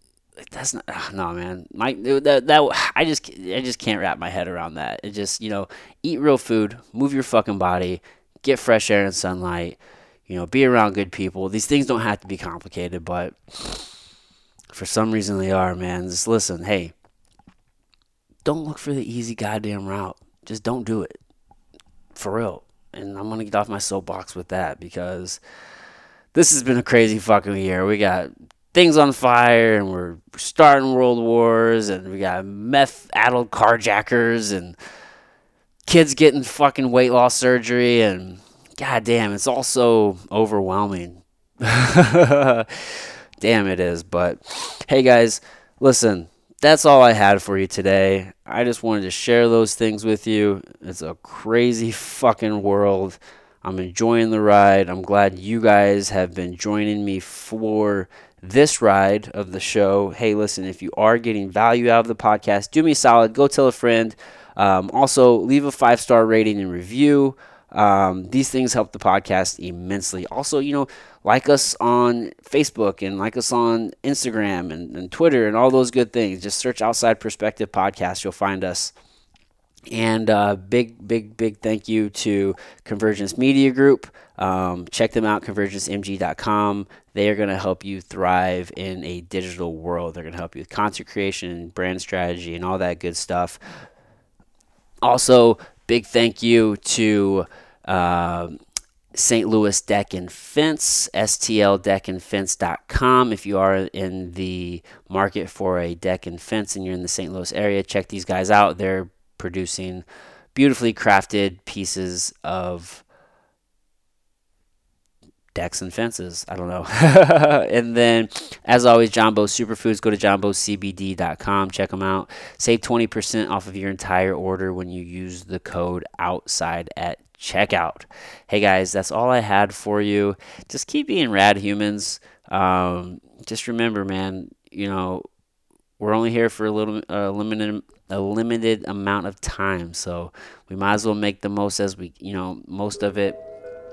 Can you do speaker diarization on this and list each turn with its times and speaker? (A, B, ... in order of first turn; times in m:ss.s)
0:00.4-0:13.9 A
0:14.7-0:16.9 A
0:18.4-0:21.2 A
0:22.1-0:25.4 A
0:26.3-0:34.8 A
0:35.8-1:18.9 A
1:19.9-1:33.6 A
1:35.0-1:38.6 A
1:39.1-1:53.0 A
1:55.5-2:15.2 A
2:16.0-2:23.4 A